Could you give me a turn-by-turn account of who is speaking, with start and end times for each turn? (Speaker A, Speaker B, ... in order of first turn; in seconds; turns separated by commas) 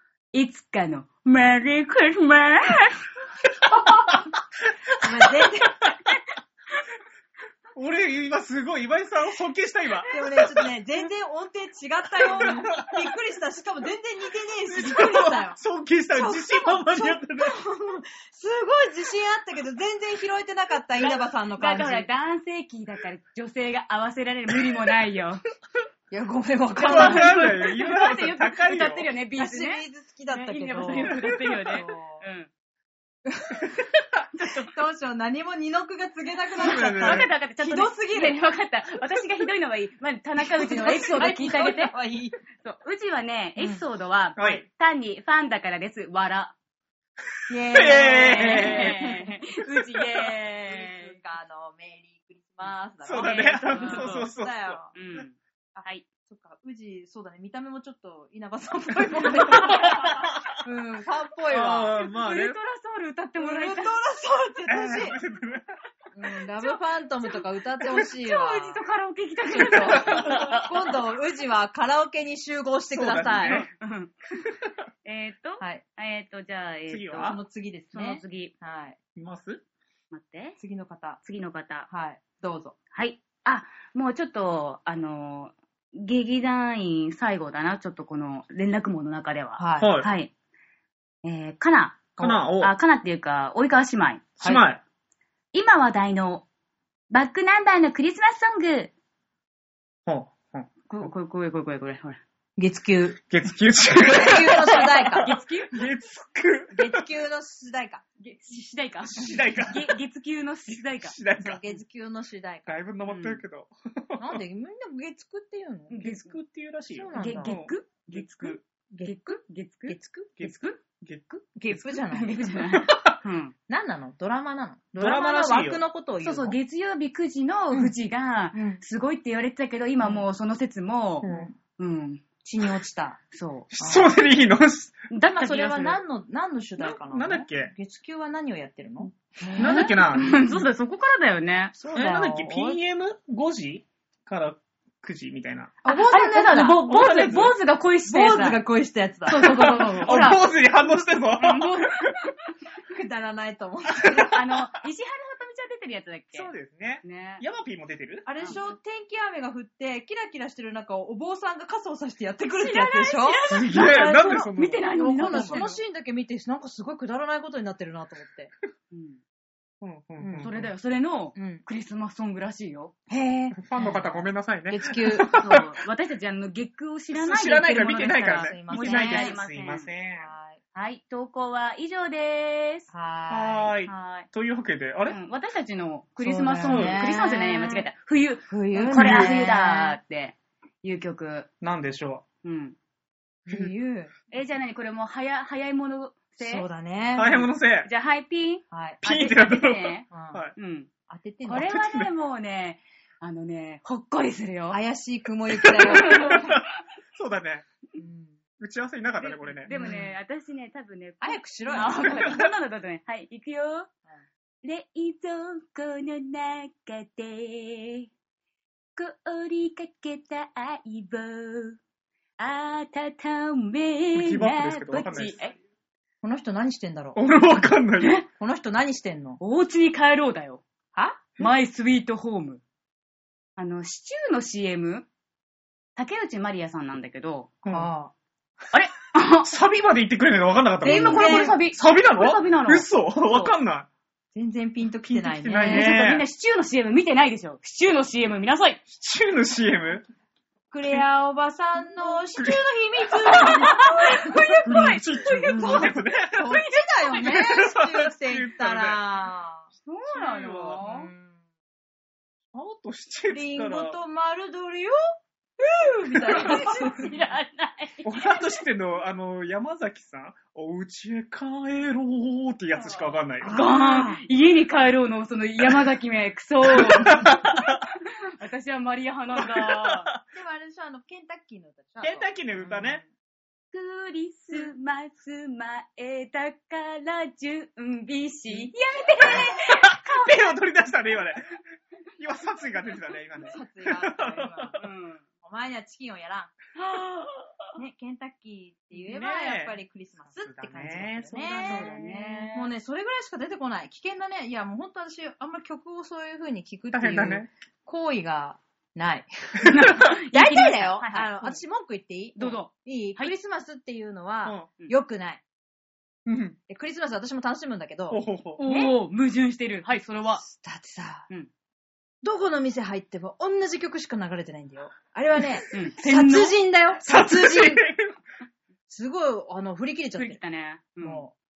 Speaker A: 0.3-3.0, Speaker B: 5.0-5.8, Speaker C: 7.7-10.7, Speaker B: 10.1-15.6, Speaker C: 12.2-13.0, Speaker C: 14.7-17.6, Speaker B: 16.1-22.1, Speaker A: 21.0-25.4, Speaker B: 26.1-27.6, Speaker C: 26.8-29.1, Speaker A: 26.8-32.5, Speaker B: 29.4-32.2, Speaker B: 33.2-33.8, Speaker A: 34.4-34.7, Speaker B: 34.5-38.4, Speaker C: 36.6-37.3, Speaker A: 36.6-42.0, Speaker B: 40.4-42.4, Speaker A: 42.6-46.5, Speaker C: 44.4-44.6, Speaker B: 47.5-49.3, Speaker C: 47.7-49.1, Speaker A: 47.8-51.1, Speaker B: 50.6-54.9, Speaker C: 53.0-55.2, Speaker A: 53.2-54.3, Speaker A: 54.9-56.0, Speaker B: 55.7-61.9, Speaker C: 59.4-60.5, Speaker C: 61.5-62.6, Speaker A: 61.9-64.0, Speaker B: 63.4-65.2, Speaker C: 64.7-65.7, Speaker B: 66.1-68.8, Speaker A: 68.0-70.6, Speaker B: 69.5-73.6, Speaker C: 69.9-70.6, Speaker C: 72.9-73.7, Speaker A: 73.4-74.5, Speaker A: 75.0-77.4, Speaker C: 76.9-77.4, Speaker B: 77.2-79.0, Speaker A: 77.9-78.5, Speaker C: 79.2-79.6, Speaker A: 80.1-80.6, Speaker B: 80.6-81.2, Speaker A: 81.2-81.9, Speaker B: 81.9-82.7, Speaker A: 82.9-90.3, Speaker B: 89.6-89.9, Speaker C: 89.8-90.1, Speaker A: 91.2-94.4, Speaker C: 92.2-92.7, Speaker C: 94.4-94.8, Speaker A: 95.5-96.4, Speaker A: 97.1-98.9, Speaker C: 100.1-101.1, Speaker A: 100.9-102.2, Speaker B: 102.6-103.2, Speaker C: 103.3-107.0, Speaker B: 103.9-105.3, Speaker A: 105.2-105.8, Speaker B: 106.7-108.0, Speaker A: 108.2-111.2, Speaker C: 109.0-110.0, Speaker C: 110.7-111.6, Speaker B: 111.4-112.8, Speaker C: 112.7-114.4, Speaker A: 113.0-113.4, Speaker B: 114.2-116.0, Speaker A: 115.9-116.4, Speaker C: 116.0-118.6, Speaker B: 116.9-117.5, Speaker A: 117.1-120.0, Speaker B: 118.9-120.7, Speaker C: 120.4-121.8, Speaker B: 121.5-122.5, Speaker A: 122.1-123.5, Speaker C: 122.7-123.2, Speaker B: 123.7-126.5, Speaker C: 125.0-125.8, Speaker A: 126.2-132.2, Speaker B: 128.5-128.8, Speaker C: 131.2-131.5, Speaker B: 131.2-131.5, Speaker B: 132.4-133.2, Speaker A: 133.3-133.7, Speaker C: 133.7-135.0, Speaker B: 133.8-134.1, Speaker A: 135.1-136.0, Speaker B: 135.2-139.9, Speaker C: 136.8-137.7, Speaker A: 139.4-141.8, Speaker C: 139.6-140.4, Speaker B: 141.8-142.8, Speaker C: 141.9-145.7, Speaker B: 145.8-146.9, Speaker A: 145.9-148.6, Speaker C: 146.9-147.5, Speaker B: 148.1-150.4, Speaker A: 149.3-150.4, Speaker C: 149.4-152.1, Speaker A: 151.4-152.1, Speaker B: 152.9-154.4, Speaker C: 154.0-154.3, Speaker A: 154.2-156.5, Speaker C: 156.3-158.2, Speaker A: 157.0-157.4, Speaker B: 158.2-168.5, Speaker A: 158.4-158.7, Speaker A: 162.6-165.7, Speaker C: 163.5-165.7, Speaker A: 168.9-169.2, Speaker C: 169.8-170.7, Speaker B: 170.2-170.5, Speaker A: 170.4-172.9, Speaker B: 171.4-171.6, Speaker B: 173.1-173.9, Speaker C: 173.6-175.7, Speaker A: 173.8-174.2, Speaker B: 174.7-175.4, Speaker A: 175.3-179.9, Speaker C: 177.1-180.3, Speaker B: 177.7-179.3, Speaker B: 180.2-180.6, Speaker A: 180.7-182.9, Speaker B: 182.9-183.7, Speaker C: 183.3-185.2, Speaker A: 183.9-184.3, Speaker A: 185.1-191.5, Speaker B: 186.2-187.9, Speaker C: 186.6-187.1, Speaker B: 188.5-190.0, Speaker C: 188.9-189.4, Speaker C: 191.6-192.2, Speaker A: 192.4-192.8, Speaker B: 193.4-194.1, Speaker A: 194.3-196.6, Speaker B: 196.4-197.4, Speaker C: 197.2-197.9, Speaker A: 197.8-200.9, Speaker B: 198.7-199.0, Speaker C: 199.0-200.5, Speaker B: 200.1-200.4, Speaker B: 201.1-201.7, Speaker A: 201.4-204.8, Speaker C: 201.6-202.1, Speaker B: 204.7-206.6, Speaker C: 205.6-207.6, Speaker A: 205.8-206.6, Speaker B: 207.9-208.4, Speaker C: 208.6-209.7, Speaker A: 209.2-213.9, Speaker B: 209.7-210.2, Speaker B: 211.2-212.4, Speaker C: 211.9-212.4, Speaker A: 214.6-218.1, Speaker A: 218.9-221.8, Speaker A: 222.4-225.6, Speaker C: 224.1-225.3, Speaker B: 226.2-227.2, Speaker C: 227.2-228.2, Speaker A: 228.0-228.3, Speaker B: 228.4-229.4, Speaker A: 229.4-230.6, Speaker B: 230.9-231.2, Speaker A: 231.4-232.6, Speaker A: 233.6-235.1, Speaker A: 235.9-237.5, Speaker C: 237.6-237.9, Speaker B: 237.7-238.1, Speaker A: 238.7-239.5, Speaker C: 239.4-243.9, Speaker A: 240.8-243.5, Speaker B: 240.8-241.6, Speaker B: 244.3-245.9, Speaker C: 245.1-246.2, Speaker A: 245.5-248.8, Speaker C: 248.9-250.0, Speaker B: 250.7-259.7, Speaker C: 253.3-253.5, Speaker A: 253.3-255.9, Speaker C: 254.6-256.6, Speaker A: 256.5-256.8, Speaker C: 257.1-259.0, Speaker A: 259.9-261.1, Speaker C: 260.1-260.8, Speaker B: 260.8-261.4, Speaker C: 262.5-264.0, Speaker B: 263.3-265.0, Speaker B: 265.6-267.2, Speaker A: 266.1-268.5, Speaker C: 268.0-273.5, Speaker B: 273.4-274.2, Speaker A: 273.4-277.8, Speaker C: 276.7-277.8, Speaker A: 278.4-280.1, Speaker C: 279.3-280.2, Speaker B: 280.3-283.0, Speaker C: 282.0-283.0, Speaker A: 283.7-290.3, Speaker C: 289.2-291.5, Speaker C: 292.2-294.7, Speaker B: 293.5-294.9, Speaker A: 294.8-295.2, Speaker B: 295.4-296.5, Speaker A: 296.8-297.7, Speaker B: 297.7-302.0, Speaker C: 298.9-299.8, Speaker C: 300.4-302.4, Speaker A: 301.4-302.7, Speaker B: 302.5-315.4, Speaker C: 306.9-307.5, Speaker A: 309.7-311.6, Speaker A: 312.4-313.3, Speaker C: 314.4-314.7, Speaker C: 316.2-316.6, Speaker B: 316.7-318.9, Speaker C: 318.1-318.6, Speaker A: 318.6-320.4, Speaker B: 320.4-321.3, Speaker B: 322.2-327.9, Speaker A: 325.7-326.6, Speaker C: 327.0-328.2, Speaker B: 328.9-330.4, Speaker A: 330.1-331.2, Speaker B: 331.0-331.3